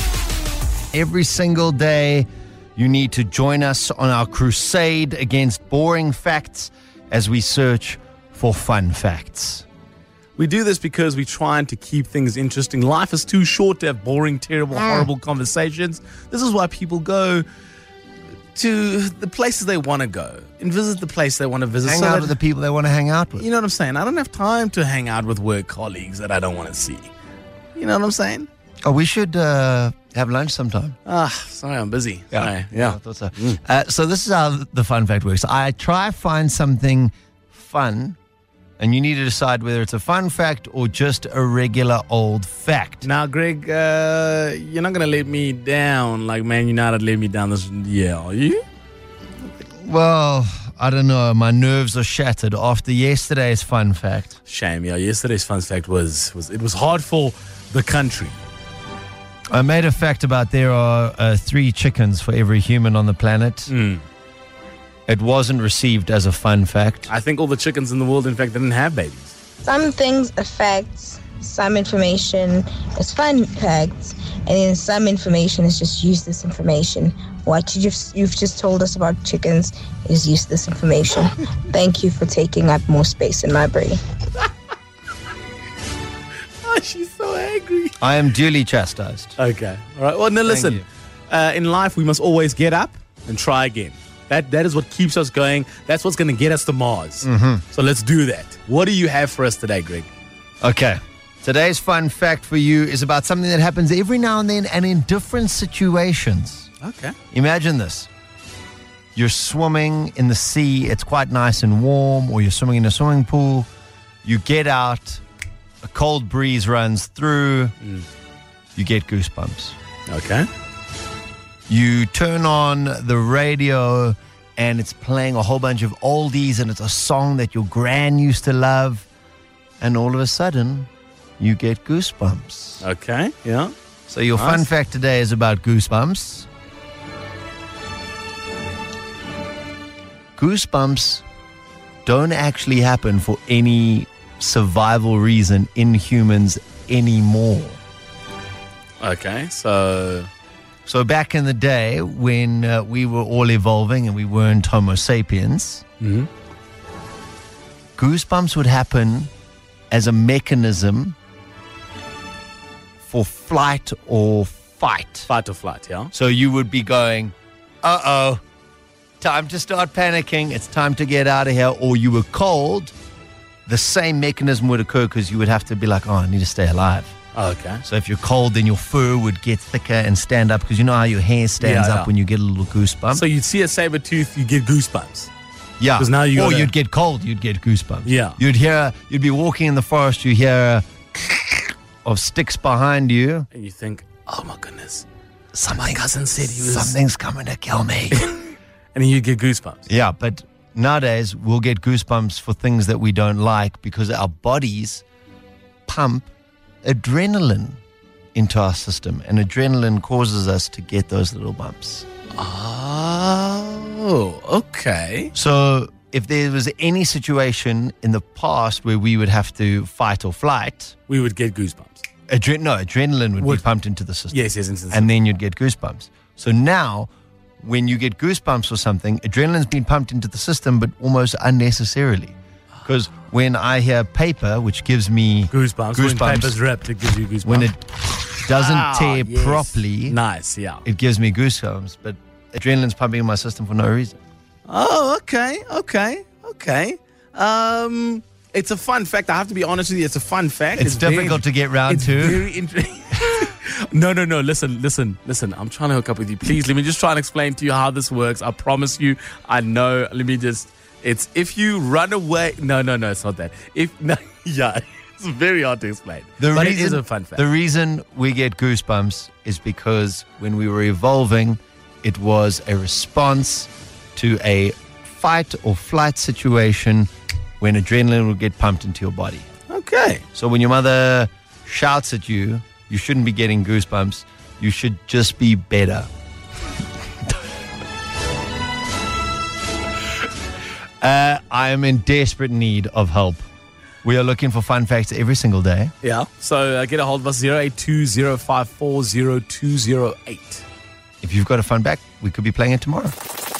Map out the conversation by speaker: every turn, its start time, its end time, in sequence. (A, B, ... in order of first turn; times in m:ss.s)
0:00.9-0:09.6 A
0:10.4-0:17.4 B
0:14.8-0:15.1 A
0:18.6-0:22.4 B
0:21.8-0:23.5 A
0:23.4-0:27.1 B
0:27.8-0:28.5 B
0:28.8-0:31.0 A
0:31.1-0:33.6 B
0:32.3-0:38.2 A
0:38.8-0:43.0 A
0:43.0-0:48.6 B
0:49.8-0:54.4 A
0:54.5-0:58.4 B
0:59.5-1:03.7 A
1:03.7-1:04.0 B
1:05.1-1:07.1 A
1:07.1-1:09.3 B
1:09.6-1:24.0 C
1:26.6-1:28.0 B
1:28.0-1:29.4 A
1:29.4-1:40.1 B
1:30.4-1:30.8 A
1:37.2-1:37.6 A
1:40.6-1:46.7 A
1:46.8-1:47.2 B
1:47.3-1:48.1 A
1:49.2-1:53.7 A
1:54.2-1:55.2 A
1:55.8-1:57.8 A
1:58.8-1:59.8 A
2:00.1-2:00.5 B
2:01.7-2:09.1 A
2:09.8-2:10.9 A
2:11.4-2:12.8 A
2:12.8-2:13.7 B
2:14.1-2:16.5 A
2:14.4-2:14.7 B
2:20.4-2:21.2 A
2:22.1-2:27.8 A
2:29.0-2:30.3 B
2:30.9-2:35.8 A
2:36.0-2:36.3 B
2:38.0-2:39.3 A
2:39.9-2:41.2 A
2:43.1-2:45.3 A
2:45.3-2:46.1 B
2:46.1-2:48.4 A
2:49.2-2:52.9 A
2:53.7-2:57.2 A
2:57.3-2:57.8 B
2:57.8-3:03.2 A
3:01.6-3:02.1 B
3:03.1-3:05.3 B
3:05.8-3:13.5 A
3:06.0-3:06.7 B
3:08.1-3:08.4 B
3:13.5-3:15.0 B
3:15.5-3:18.2 A
3:15.8-3:17.0 B
3:18.1-3:18.4 B
3:19.0-3:19.8 B
3:19.9-3:25.0 A
3:25.9-3:26.3 A
3:26.8-3:27.8 A
3:28.4-3:32.1 A
3:32.4-3:35.3 B
3:35.3-3:41.0 A
3:41.1-3:42.0 B
3:42.3-3:47.1 A
3:44.3-3:45.1 B
3:47.6-3:56.6 A
3:55.5-3:57.7 B
3:57.4-4:00.2 A
3:58.3-4:00.8 B
4:00.8-4:04.2 A
4:04.7-4:27.4 B
4:10.8-4:12.4 A
4:26.4-4:37.1 A
4:37.6-4:39.5 A
4:39.7-4:40.2 B
4:40.4-4:46.1 A
4:51.0-4:53.4 A
4:54.0-4:55.9 A
4:56.0-5:00.6 B
5:01.2-5:03.2 A